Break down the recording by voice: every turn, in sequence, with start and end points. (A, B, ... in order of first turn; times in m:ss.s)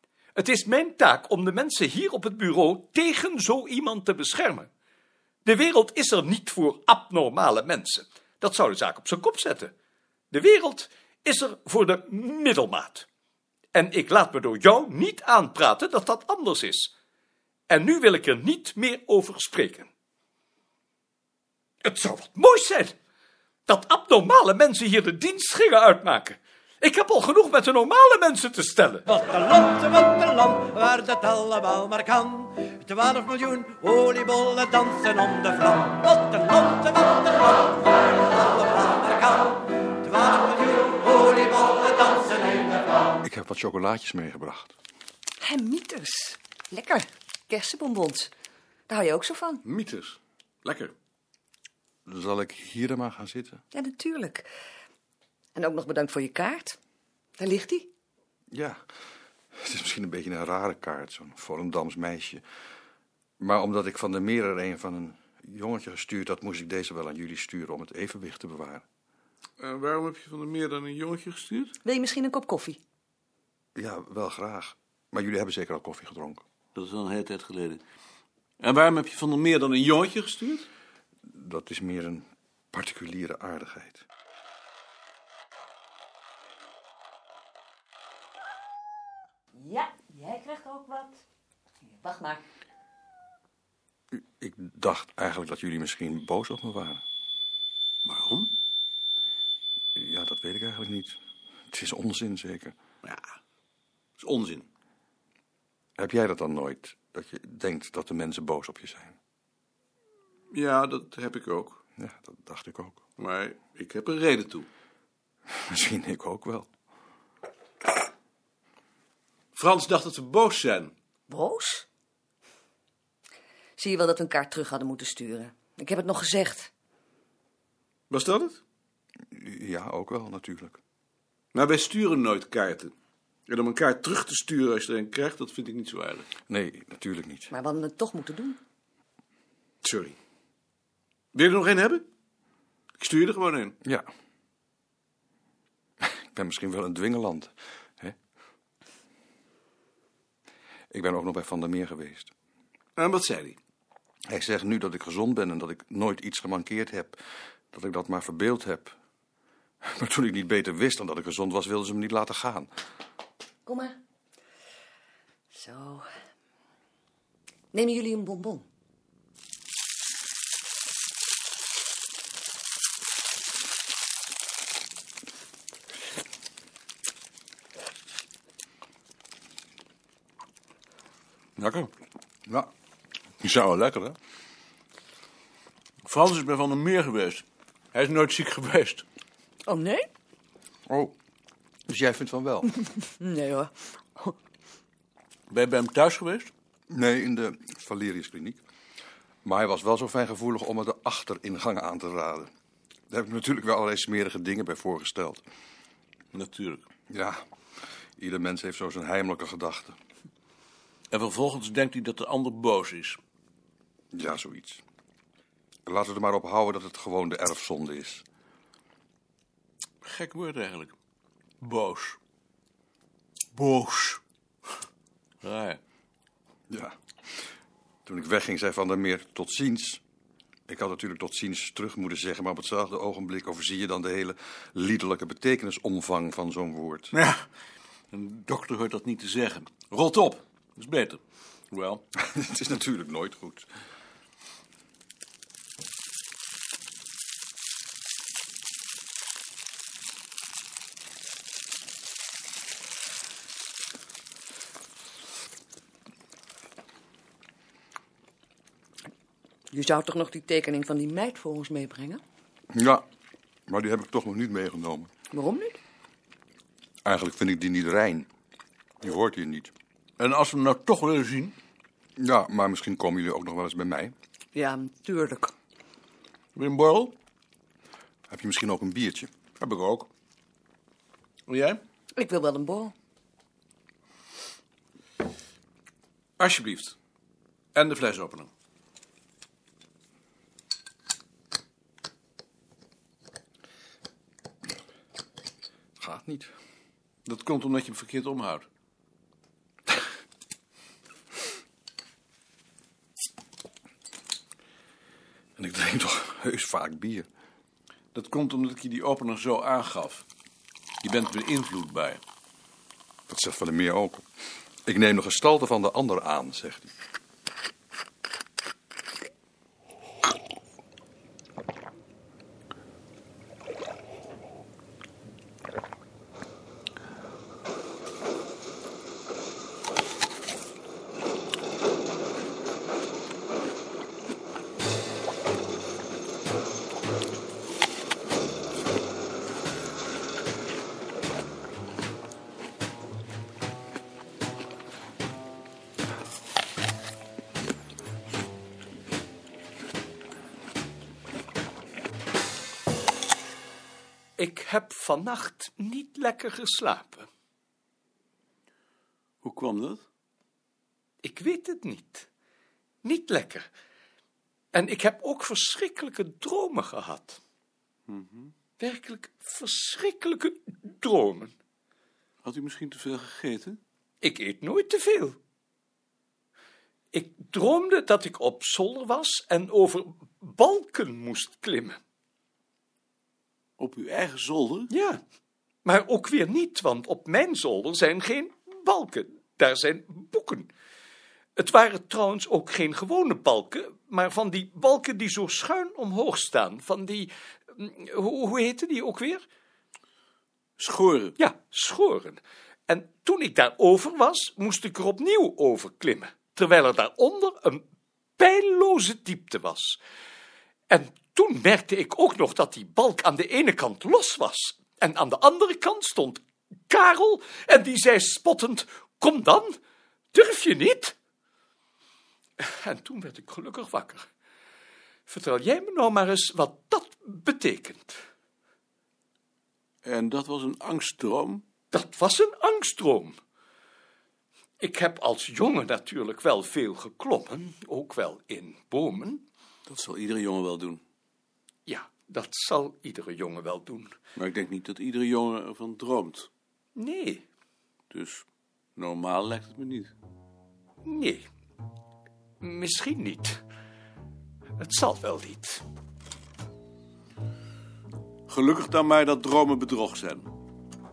0:00.3-0:04.7 A
0:05.4-0:09.7 A
0:10.3-0:13.1 A
0:13.7-0:16.9 A
0:17.7-0:19.9 A
0:21.8-0:22.9 A
0:23.7-0:29.1 A
0:29.1-0:43.0 B
0:43.2-0:44.7 C
0:45.4-0:48.3 D
0:48.9-0:49.6 D
0:49.6-0:50.9 E
0:52.0-0:53.6 C
0:53.7-0:54.5 D
0:55.5-0:56.8 D
0:57.4-0:57.9 D
0:58.5-0:58.8 C
0:59.5-1:02.4 C
1:03.4-1:08.8 C
1:09.6-1:11.8 E
1:11.8-1:12.8 D
1:13.7-1:16.4 C
1:16.7-1:17.8 E
1:18.6-1:20.7 E
1:21.2-1:24.0 C
1:29.6-1:31.2 D
1:32.0-1:32.4 D
1:34.1-1:37.0 C
1:38.0-1:38.5 E
1:39.9-1:41.2 C
1:41.7-1:42.7 C
1:43.0-1:43.3 E
1:44.2-1:44.7 E
1:46.0-1:49.2 C
1:50.5-1:51.8 E
1:52.0-1:53.0 C
1:53.2-1:54.7 E
1:55.5-1:56.7 C
1:59.5-2:00.9 E
2:01.3-2:01.8 D
2:03.8-2:06.7 D
2:08.1-2:08.6 E
2:09.3-2:10.8 C
2:11.5-2:12.9 E
2:13.5-2:16.3 E
2:16.5-2:17.5 C
2:17.5-2:18.6 D
2:19.8-2:20.1 E
2:21.3-2:22.0 E
2:23.0-2:23.8 E
2:26.0-2:28.2 C
2:30.9-2:32.3 C
2:33.0-2:33.6 E
2:34.3-2:37.2 C
2:37.7-2:38.9 C
2:39.8-2:42.7 C
2:43.6-2:44.0 D
2:45.5-2:46.1 D
2:47.7-2:48.6 D
3:01.6-3:01.9 E
3:03.4-3:04.2 E
3:06.0-3:09.0 E
3:09.7-3:10.1 D
3:10.9-3:11.1 C
3:11.9-3:12.7 C
3:12.9-3:14.3 D
3:15.5-3:16.5 E
3:16.9-3:18.6 C
3:19.4-3:22.5 C
3:23.1-3:25.4 C
3:26.3-3:26.8 E
3:27.1-3:27.4 C
3:28.2-3:30.0 C
3:31.1-3:33.2 E
3:34.1-3:34.8 C
3:35.8-3:38.2 C
3:40.0-3:40.9 E
3:41.6-3:42.2 E
3:43.5-3:44.2 E
3:45.4-3:45.8 E
3:48.0-3:50.0 C
3:50.7-3:57.1 C
3:57.1-3:57.4 E
3:58.1-4:01.2 E
4:01.7-4:02.0 E
4:02.2-4:03.7 C
4:19.7-4:22.2 D
4:22.7-4:23.0 C
4:23.7-4:25.1 C
4:25.3-4:25.8 D
4:27.0-4:28.2 C
4:29.0-4:29.7 C
4:30.2-4:31.6 E
4:32.2-4:34.1 C
4:34.5-4:35.5 D
4:36.5-4:37.1 E
4:38.3-4:39.3 C
4:39.6-4:40.1 E
4:41.5-4:41.8 E
4:42.2-4:42.9 D
4:46.4-4:47.0 E
4:47.7-4:48.5 E
4:56.0-4:56.5 C
4:57.2-4:58.6 E
5:05.6-5:07.3 C
5:08.1-5:10.2 E
5:11.0-5:12.2 E
5:13.3-5:14.3 C
5:14.8-5:16.9 C
5:54.4-5:57.3 A
5:59.4-6:00.0 E
6:01.2-6:02.3 A
6:03.0-6:03.7 A
6:04.7-6:07.4 A
6:08.1-6:08.5 E
6:08.8-6:11.5 A
6:12.4-6:13.8 E
6:14.2-6:15.4 A
6:17.1-6:22.0 A
6:23.8-6:24.9 E
6:24.9-6:25.2 A
6:25.8-6:30.7 A
6:31.6-6:39.4 A
6:40.8-6:41.4 E
6:41.4-6:47.8 A
6:48.4-6:50.0 A
6:50.9-6:59.7 A
7:00.3-7:01.1 A
7:02.6-7:04.3 A
7:05.3-7:08.2 A
7:10.0-7:11.6 E
7:11.9-7:13.4 A
7:14.8-7:19.4 A
7:19.9-7:21.0 E
7:21.9-7:24.1 A
7:24.4-7:26.5 E
7:27.0-7:27.4 A
7:28.1-7:28.4 E
7:29.0-7:30.1 E
7:31.0-7:31.5 A
7:32.6-7:33.6 A
7:34.8-7:35.8 A
7:38.5-7:40.5 E